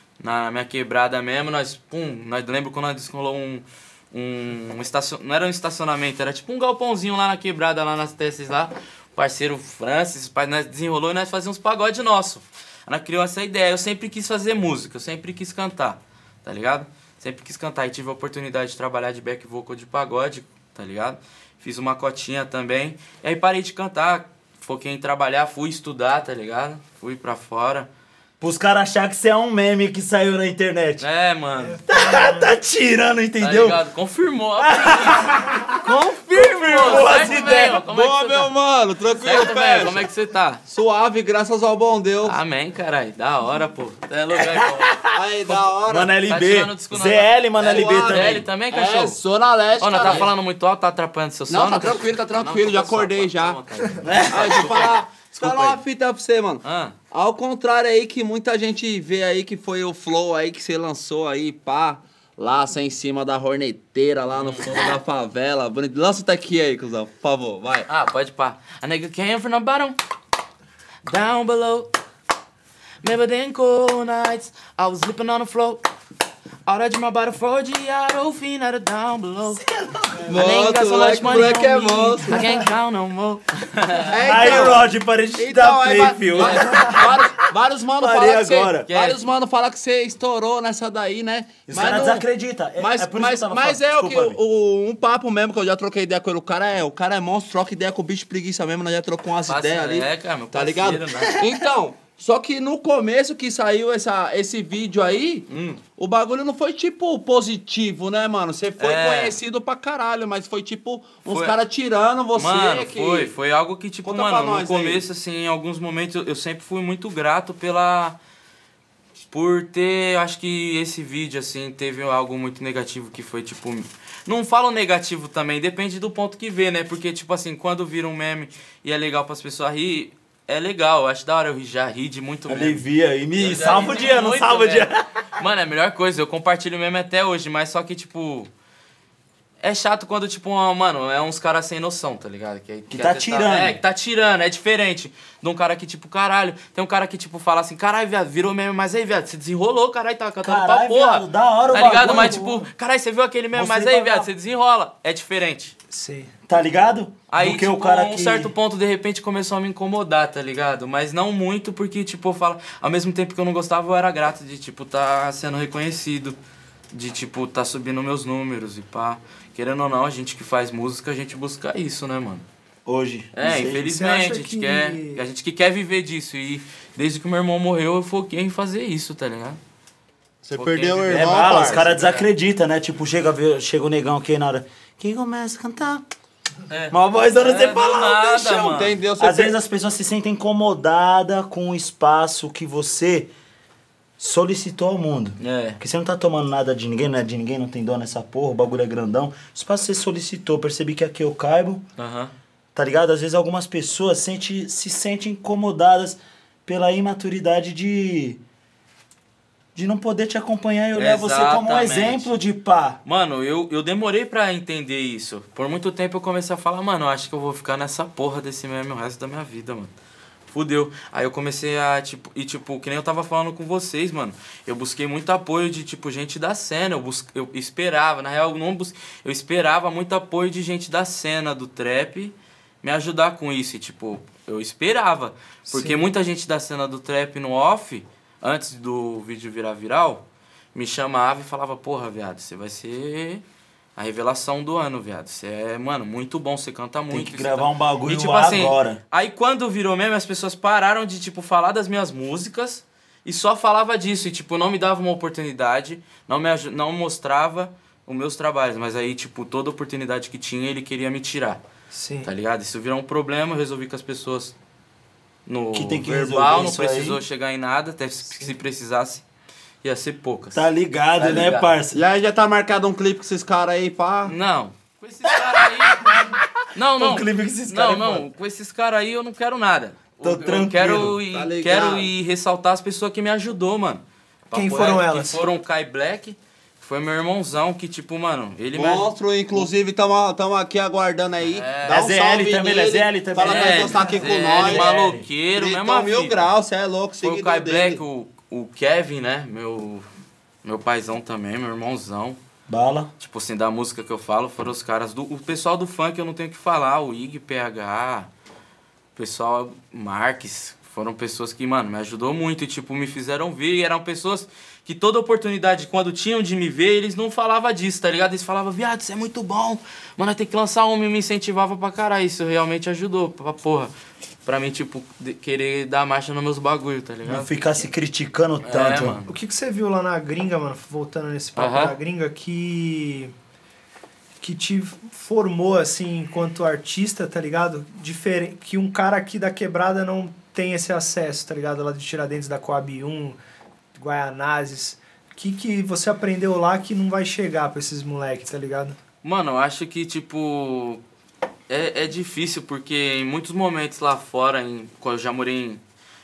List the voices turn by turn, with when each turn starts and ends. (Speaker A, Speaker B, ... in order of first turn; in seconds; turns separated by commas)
Speaker A: 0.2-27.9, Speaker B: 28.4-31.1, Speaker A: 31.0-31.8, Speaker C: 31.6-32.5, Speaker B: 31.9-33.8, Speaker A: 33.4-35.5, Speaker B: 34.6-37.8, Speaker A: 36.3-38.5, Speaker C: 36.7-37.0, Speaker D: 37.1-40.1, Speaker A: 39.2-40.6, Speaker D: 40.7-42.4, Speaker A: 42.2-45.6, Speaker B: 44.4-45.2, Speaker D: 45.1-46.1, Speaker B: 45.9-48.5, Speaker A: 46.3-49.2, Speaker D: 47.6-50.3, Speaker A: 49.8-55.8, Speaker D: 51.5-53.6, Speaker B: 54.0-54.7, Speaker D: 54.3-67.9, Speaker A: 56.6-57.0, Speaker A: 64.4-64.9, Speaker A: 67.9-70.0, Speaker A: 71.0-71.9, Speaker A: 73.0-75.8, Speaker A: 76.7-79.6, Speaker B: 79.5-80.5, Speaker D: 80.3-82.4, Speaker A: 80.3-84.7, Speaker C: 81.2-82.7, Speaker D: 84.0-84.8, Speaker B: 84.2-87.5, Speaker D: 85.4-92.3, Speaker B: 88.0-88.9, Speaker A: 88.9-89.2, Speaker B: 91.7-94.4, Speaker D: 92.8-113.3, Speaker A: 99.5-101.4, Speaker A: 105.5-105.8, Speaker A: 108.8-109.4, Speaker A: 111.3-111.5, Speaker A: 112.3-118.2, Speaker D: 114.0-115.0, Speaker A: 119.3-132.8, Speaker B: 132.5-135.0, Speaker A: 133.3-138.5, Speaker A: 139.6-155.8, Speaker B: 142.9-143.8, Speaker B: 150.4-152.7, Speaker B: 153.5-154.3, Speaker C: 155.9-156.3, Speaker B: 156.5-158.5, Speaker A: 157.3-166.4, Speaker A: 166.9-172.4, Speaker B: 172.9-173.9, Speaker A: 173.3-179.6, Speaker C: 173.6-175.3, Speaker D: 180.4-181.8, Speaker A: 180.5-182.3, Speaker B: 181.1-186.0, Speaker A: 186.7-188.9, Speaker B: 186.9-193.3, Speaker D: 188.6-189.6, Speaker B: 194.2-201.9, Speaker A: 195.4-195.8, Speaker A: 202.0-202.3, Speaker B: 202.8-208.4, Speaker B: 209.8-213.0, Speaker A: 211.0-212.3, Speaker A: 213.1-219.9, Speaker A: 220.5-243.4, Speaker C: 235.7-236.0, Speaker A: 244.0-261.6, Speaker B: 247.1-249.0, Speaker C: 261.9-262.3, Speaker A: 262.2-264.6, Speaker A: 265.5-269.2, Speaker B: 265.7-267.2, Speaker A: 269.8-270.6, Speaker B: 270.5-272.0, Speaker A: 271.2-271.7, Speaker D: 271.4-274.3, Speaker A: 274.2-276.2, Speaker B: 276.0-276.3, Speaker A: 276.7-289.7, Speaker B: 277.0-278.2, Speaker B: 280.2-281.2, Speaker D: 281.3-282.1, Speaker C: 284.5-285.4, Speaker D: 288.8-295.0, Speaker A: 291.4-292.1, Speaker B: 291.9-295.3, Speaker A: 293.4-296.4, Speaker D: 295.6-298.0, Speaker A: 297.2-300.1, Speaker A: 300.6-302.4, Speaker B: 302.7-303.1, Speaker A: 303.2-308.3, Speaker A: 309.2-323.9, Speaker A: 324.5-327.5, Speaker B: 327.2-329.2, Speaker A: 328.6-329.3, Speaker C: 329.3-333.3, Speaker A: 331.6-332.0, Speaker C: 334.4-343.4, Speaker C: 343.9-349.0, Speaker A: 349.2-351.0, Speaker A: 351.7-355.8